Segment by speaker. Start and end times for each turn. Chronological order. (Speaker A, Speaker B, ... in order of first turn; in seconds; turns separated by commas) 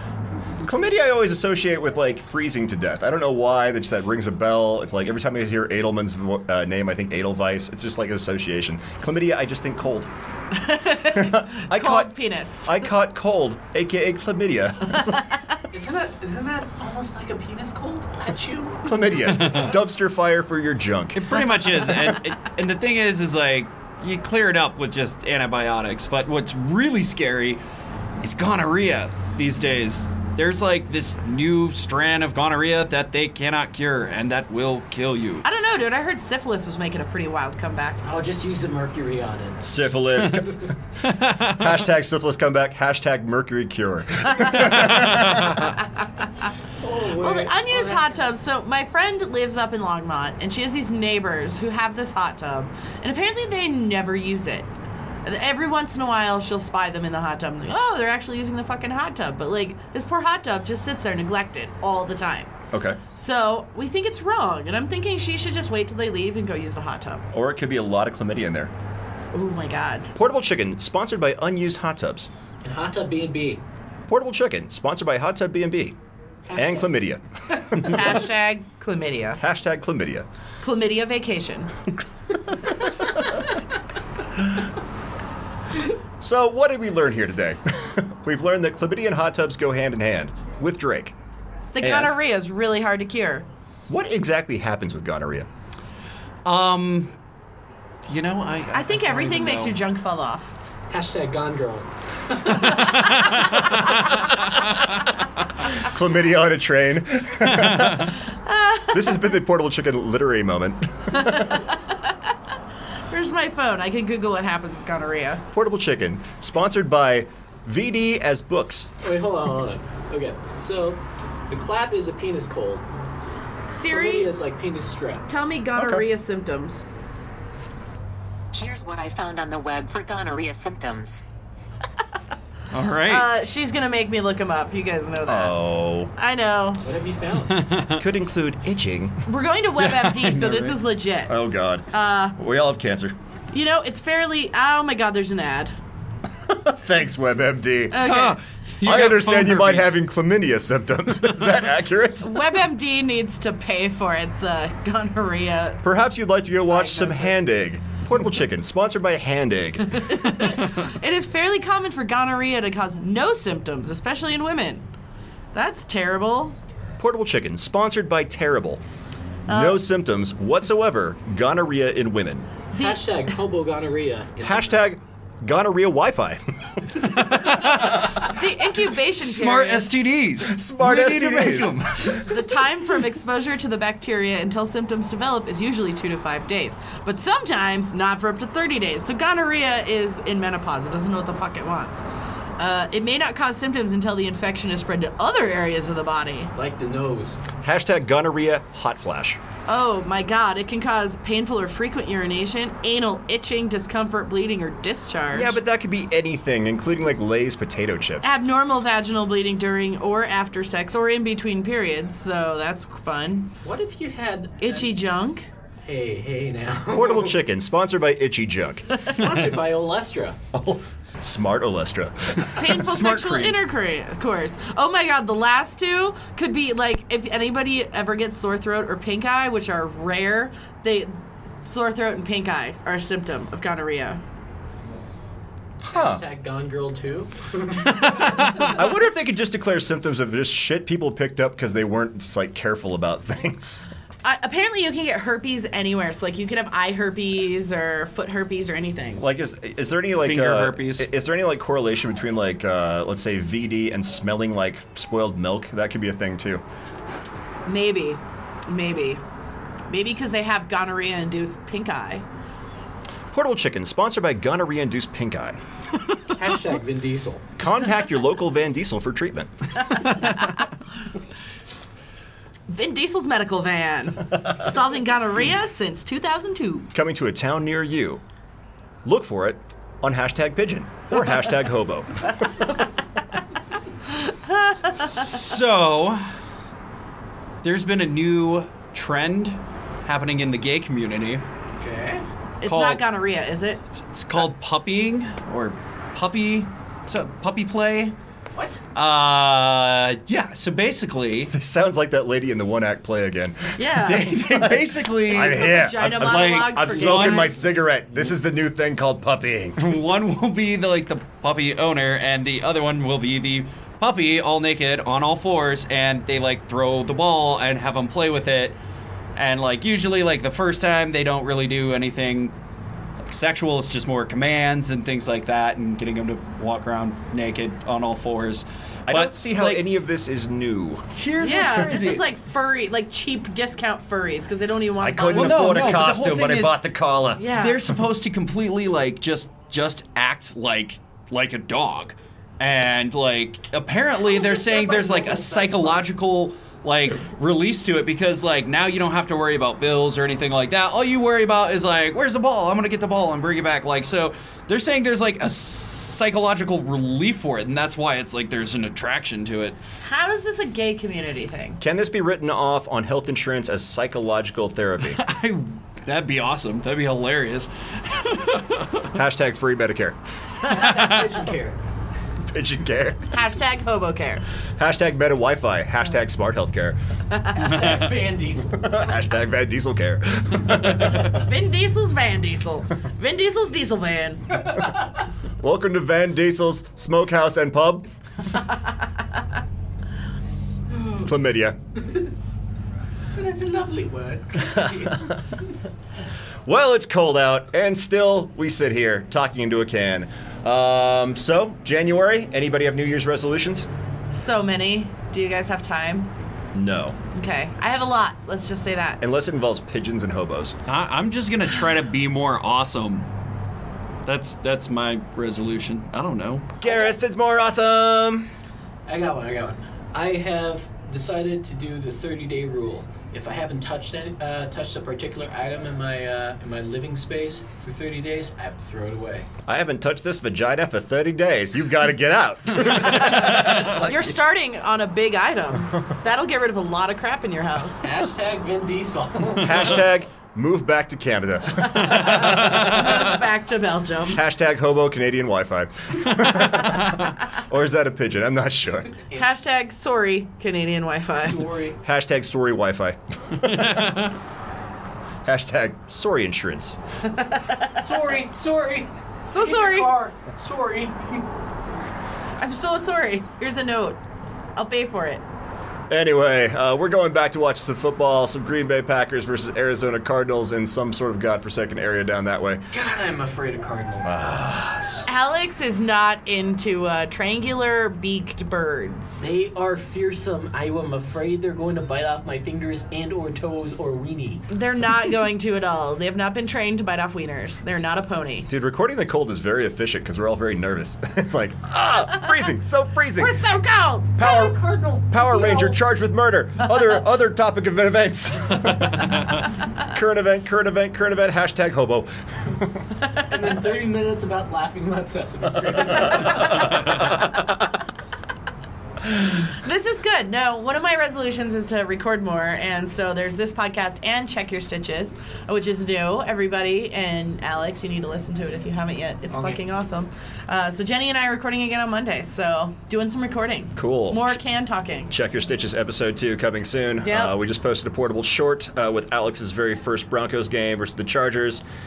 Speaker A: 0.6-10.1, Speaker B: 10.5-12.9, Speaker A: 11.0-15.2, Speaker B: 15.1-15.4, Speaker C: 15.7-18.9, Speaker A: 18.8-21.4, Speaker D: 19.4-19.7, Speaker D: 21.1-27.6, Speaker D: 28.2-35.4, Speaker B: 35.4-38.0, Speaker C: 38.0-39.7, Speaker A: 39.6-40.7, Speaker D: 41.1-41.6, Speaker A: 41.4-45.6, Speaker C: 46.8-48.3, Speaker B: 47.2-54.7, Speaker B: 55.2-62.5, Speaker A: 62.7-63.0, Speaker B: 63.1-67.2, Speaker A: 67.3-68.7, Speaker B: 69.3-70.1, Speaker A: 70.1-72.3, Speaker C: 72.6-73.6, Speaker A: 74.1-76.0, Speaker C: 76.5-76.9, Speaker A: 76.5-78.2, Speaker B: 77.8-79.4, Speaker A: 79.4-80.3, Speaker B: 80.6-81.7, Speaker A: 86.2-91.1, Speaker B: 91.7-93.5, Speaker A: 91.8-92.1, Speaker A: 93.9-95.5, Speaker D: 96.4-97.1, Speaker D: 98.1-99.8, Speaker B: 98.7-100.5, Speaker C: 100.9-101.9, Speaker A: 105.8-108.1, Speaker D: 107.7-108.0, Speaker B: 108.5-108.9, Speaker A: 108.9-111.6, Speaker B: 111.2-111.7, Speaker B: 113.1-115.4, Speaker A: 115.5-118.9, Speaker C: 119.0-122.9, Speaker B: 123.7-124.3, Speaker C: 123.9-125.2, Speaker B: 125.3-126.8, Speaker E: 128.5-131.2, Speaker D: 132.7-133.3, Speaker B: 133.0-135.6, Speaker A: 135.2-136.1, Speaker B: 136.1-136.8, Speaker C: 136.8-137.6, Speaker D: 137.5-138.0, Speaker A: 137.9-139.2, Speaker B: 139.3-141.3, Speaker D: 139.8-140.8, Speaker A: 141.3-143.2, Speaker B: 141.9-142.3, Speaker B: 143.5-145.7, Speaker A: 146.5-148.1, Speaker B: 147.9-148.4, Speaker D: 148.0-149.9, Speaker A: 148.8-152.5, Speaker B: 152.2-155.8, Speaker A: 155.8-160.2, Speaker B: 156.8-157.3, Speaker B: 160.0-164.8, Speaker B: 165.5-166.6, Speaker A: 167.0-168.8, Speaker B: 169.5-169.8, Speaker A: 169.5-172.5, Speaker B: 172.7-173.0, Speaker C: 172.8-174.8, Speaker A: 174.4-176.4, Speaker D: 177.3-178.1, Speaker B: 178.2-179.9, Speaker D: 179.1-182.2, Speaker A: 180.4-182.0, Speaker B: 182.1-192.0, Speaker B: 192.6-196.5, Speaker C: 196.6-197.4, Speaker A: 197.6-199.4, Speaker B: 199.7-205.5, Speaker A: 205.3-208.3, Speaker B: 208.2-213.5, Speaker C: 213.6-214.9, Speaker B: 214.6-215.5, Speaker C: 215.8-217.4, Speaker A: 216.9-219.0, Speaker C: 219.0-220.4, Speaker A: 220.5-222.6, Speaker B: 222.5-234.2, Speaker D: 222.7-223.6, Speaker A: 235.8-236.2, Speaker C: 235.9-238.8, Speaker A: 238.2-243.8, Speaker B: 244.2-249.2, Speaker A: 249.2-256.6, Speaker D: 250.2-251.1, Speaker B: 257.7-259.2, Speaker B: 259.9-262.2, Speaker A: 263.3-265.6, Speaker C: 266.3-267.4, Speaker A: 267.6-269.5, Speaker B: 272.7-276.9, Speaker A: 276.9-278.2, Speaker A: 279.0-282.6, Speaker B: 284.2-285.3, Speaker D: 284.8-286.2, Speaker D: 287.6-291.4, Speaker C: 291.8-292.2, Speaker B: 292.6-293.8, Speaker D: 292.6-293.0, Speaker D: 293.9-298.1, Speaker C: 298.5-298.8, Speaker D: 298.9-301.5, Speaker A: 301.5-309.8, Speaker B: 303.8-304.5, Speaker D: 304.0-307.5, Speaker B: 305.4-307.6, Speaker D: 309.8-318.8, Speaker D: 319.4-322.5, Speaker D: 323.2-329.8, Speaker A: 329.1-331.1, Speaker D: 331.2-332.2, Speaker B: 331.4-336.1, Speaker C: 331.5-332.2, Speaker A: 335.0-337.5, Speaker D: 335.3-336.8, Speaker B: 337.4-337.8, Speaker D: 337.5-359.8, Speaker C: 344.2-346.1, Speaker B: 360.0-361.8, Speaker A: 361.8-365.2, Speaker D: 365.1-369.1, Speaker A: 369.1-370.2, Speaker C: 370.6-371.8, Speaker A: 372.5-373.3, Speaker B: 373.3-374.4, Speaker A: 374.8-377.0, Speaker B: 377.3-377.6, Speaker C: 377.6-378.9, Speaker A: 378.8-381.3, Speaker B: 381.3-384.6, Speaker C: 384.7-384.9, Speaker A: 385.6-388.1, Speaker A: 391.2-391.8, Speaker C: 393.3-395.4, Speaker A: 394.6-395.1, Speaker A: 396.7-403.9, Speaker B: 404.3-406.3, Speaker A: 406.7-407.2, Speaker B: 407.3-409.2, Speaker A: 409.2-410.8, Speaker D: 410.9-413.3, Speaker D: 414.3-416.7, Speaker A: 416.8-418.5, Speaker C: 419.1-429.5, Speaker A: 429.6-434.2, Speaker B: 433.0-438.0, Speaker C: 438.0-440.0, Speaker A: 439.6-442.9, Speaker B: 442.0-444.4, Speaker D: 442.2-443.1, Speaker A: 444.3-449.1, Speaker D: 447.0-447.3, Speaker B: 449.3-451.6, Speaker C: 451.4-452.0, Speaker A: 452.0-454.2, Speaker D: 453.7-454.3, Speaker A: 455.4-457.0, Speaker B: 457.3-458.0, Speaker C: 458.0-461.4, Speaker B: 459.5-460.1, Speaker B: 462.6-464.2, Speaker B: 464.8-465.4, Speaker A: 466.1-472.8, Speaker C: 472.9-474.4, Speaker A: 474.2-475.3, Speaker B: 475.3-479.4, Speaker C: 479.4-484.6, Speaker B: 484.7-488.7, Speaker A: 488.7-493.6, Speaker B: 493.4-494.4, Speaker C: 494.4-496.0, Speaker A: 494.4-499.5, Speaker A: 500.0-503.0, Speaker B: 503.2-503.5, Speaker C: 503.5-506.9, Speaker B: 509.4-525.3, Speaker C: 519.5-519.8, Speaker A: 524.0-524.6, Speaker A: 525.3-531.8, Speaker B: 527.2-527.5